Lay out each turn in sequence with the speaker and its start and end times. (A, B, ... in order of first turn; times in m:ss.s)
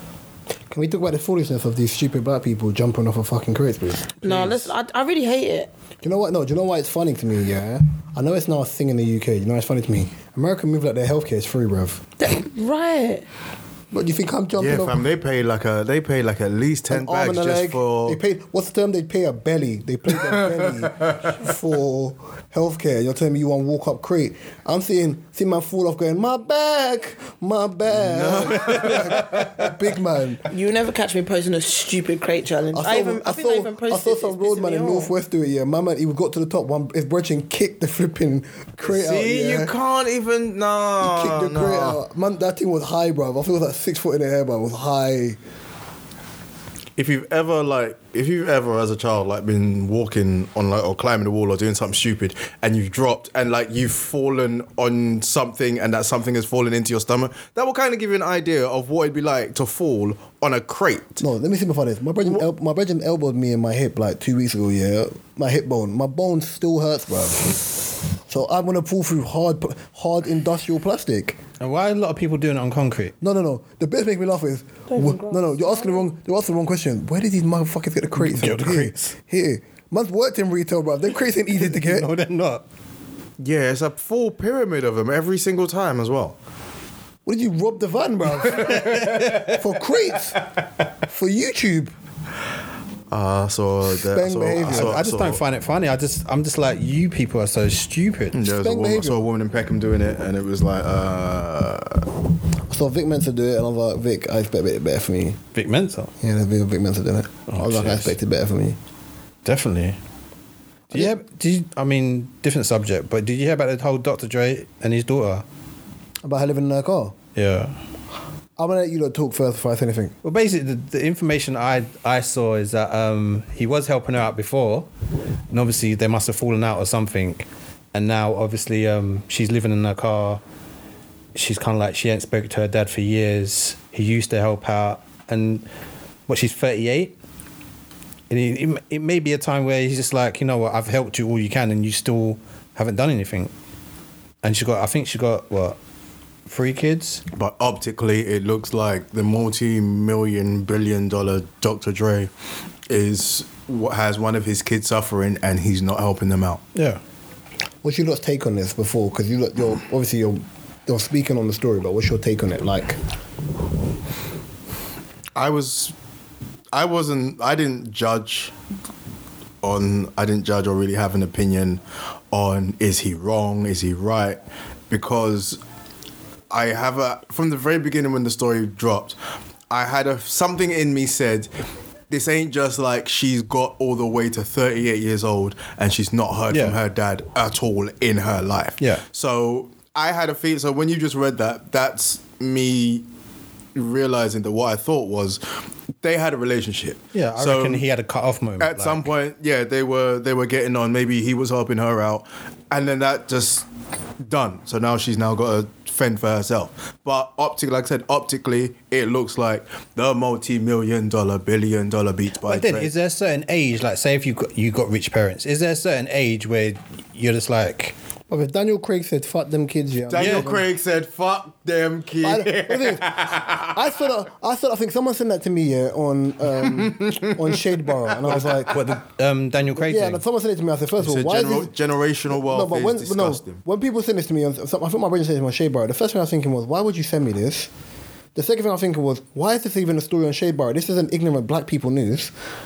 0:00.7-0:04.4 A
0:04.2-0:05.7 B
0:06.0-0:12.0 A
0:12.2-0:13.3 B
0:13.9-0:15.1 A
0:14.6-0:18.2 C
0:16.9-0:30.4 A
0:20.2-0:21.3 C
0:28.0-0:29.8 C
0:30.5-0:35.1 B
0:32.7-0:39.7 A
0:38.8-0:42.0 C
0:41.0-0:45.4 A
0:47.0-1:01.2 C
1:01.2-1:11.4 A
1:11.6-1:13.1 D
1:13.2-1:22.1 A
1:14.9-1:16.1 B
1:18.2-1:19.1 D
1:21.6-1:22.6 D
1:23.4-1:26.4 C
1:27.3-1:30.4 A
1:28.5-1:29.6 D
1:28.6-1:29.4 C
1:31.1-1:31.9 A
1:33.1-1:35.4 C
1:33.9-1:35.0 A
1:34.6-1:38.4 D
1:38.3-1:42.1 C
1:38.5-1:39.3 A
1:42.7-1:45.4 A
1:45.5-1:46.1 D
1:46.2-1:48.8 A
1:47.5-1:48.2 D
1:49.4-1:50.0 D
1:50.9-1:55.4 D
1:56.2-1:57.2 A
1:57.4-1:57.8 D
1:58.6-2:00.2 A
2:00.2-2:04.9 D
2:05.5-2:10.4 D
2:11.4-2:15.7 D
2:16.3-2:17.1 D
2:18.3-2:23.5 D
2:24.4-2:25.8 D
2:26.5-2:27.2 D
2:27.3-2:32.3 C
2:32.9-2:36.6 C
2:36.8-2:37.0 D
2:37.8-2:43.0 A
2:45.4-2:45.9 C
2:46.7-2:48.5 C
2:49.6-2:51.8 C
2:52.3-2:54.4 C
2:54.9-2:55.6 C
2:56.5-2:59.2 C
2:59.7-3:01.5 C
3:02.1-3:13.0 C
3:06.5-3:06.8 D
3:13.8-3:15.4 C
3:16.0-3:17.8 C
3:17.1-3:19.1 D
3:18.6-3:23.7 C
3:24.2-3:32.9 C
3:32.4-3:38.0 D
3:38.3-3:40.7 A
3:40.1-3:43.8 C
3:40.2-3:40.5 D
3:42.2-3:48.8 A
3:46.6-3:47.6 C
3:48.1-3:48.8 C
3:48.7-3:50.2 D
3:49.8-3:51.7 A
3:51.0-3:53.6 C
3:52.3-3:57.7 A
3:58.4-4:02.3 A